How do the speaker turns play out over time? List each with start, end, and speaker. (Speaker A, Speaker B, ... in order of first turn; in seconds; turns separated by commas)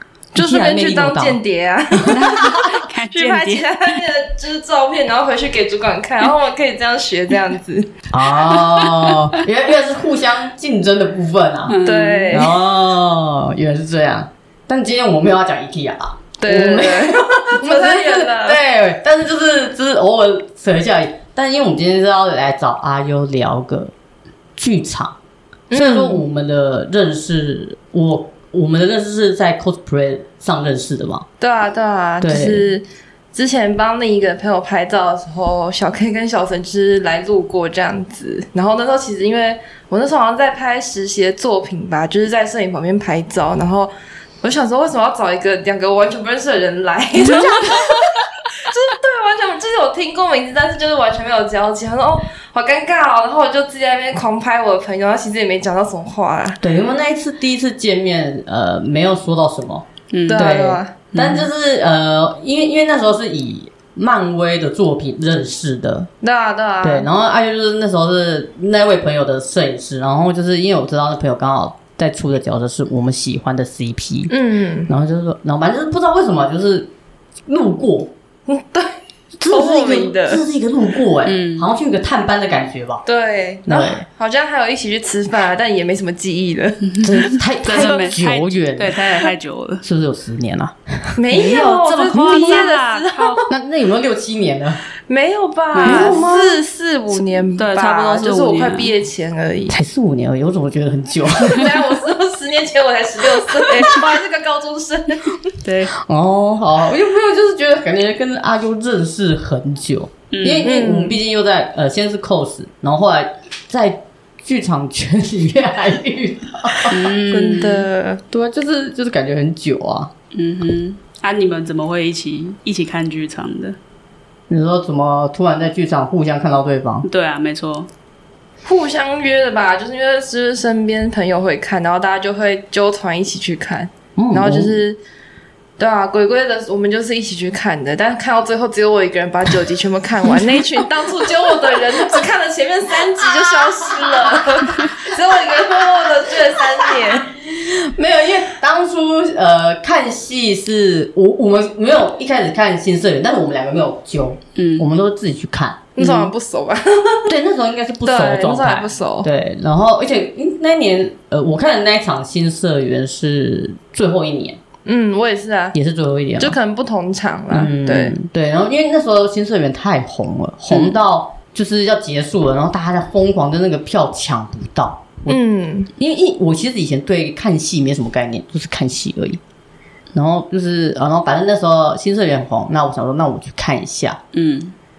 Speaker A: 0.3-1.4, Speaker B: 0.3-2.5, Speaker A: 1.9-2.2, Speaker C: 2.1-3.9, Speaker B: 3.1-8.0, Speaker A: 8.1-11.8, Speaker C: 8.6-9.2, Speaker C: 11.7-12.5, Speaker B: 11.8-12.5, Speaker A: 12.3-23.9, Speaker B: 16.4-18.6, Speaker A: 24.6-25.1, Speaker B: 25.7-26.2, Speaker A: 25.7-31.2, Speaker B: 31.4-43.9, Speaker A: 32.2-32.7, Speaker B: 44.4-56.6, Speaker A: 56.6-66.1, Speaker C: 60.1-60.6, Speaker B: 60.3-60.9, Speaker C: 61.1-61.5, Speaker B: 66.2-67.1, Speaker A: 66.8-74.3, Speaker B: 74.3-74.9, Speaker A: 74.9-76.9, Speaker A: 77.5-78.1, Speaker B: 78.5-80.4, Speaker A: 79.4-83.0, Speaker C: 81.2-81.7, Speaker B: 83.0-87.0, Speaker A: 83.7-84.0, Speaker C: 86.9-89.8, Speaker A: 87.0-89.0, Speaker A: 89.8-92.6, Speaker B: 91.2-93.4, Speaker C: 91.5-93.4, Speaker A: 93.5-94.8, Speaker B: 95.1-99.8, Speaker C: 95.7-96.2, Speaker A: 95.8-96.6, Speaker C: 97.5-98.9, Speaker A: 99.7-101.8, Speaker B: 101.4-105.4, Speaker A: 103.5-104.0, Speaker C: 105.6-105.9, Speaker A: 105.9-117.1, Speaker C: 110.3-110.7, Speaker B: 110.6-111.2, Speaker C: 116.9-117.9, Speaker B: 117.3-118.2, Speaker A: 118.3-120.1, Speaker C: 120.3-123.8, Speaker A: 124.5-127.1, Speaker C: 127.0-127.9, Speaker B: 128.6-135.0, Speaker A: 134.2-134.7, Speaker B: 135.8-147.3, Speaker A: 147.1-156.3, Speaker C: 154.6-154.8, Speaker B: 155.9-157.3, Speaker A: 157.3-164.6, Speaker B: 158.0-159.3, Speaker B: 164.8-165.8, Speaker A: 165.7-166.6, Speaker B: 166.4-168.1, Speaker A: 167.5-175.4, Speaker B: 175.3-175.9, Speaker A: 176.0-179.4, Speaker A: 180.1-184.2, Speaker C: 184.3-184.7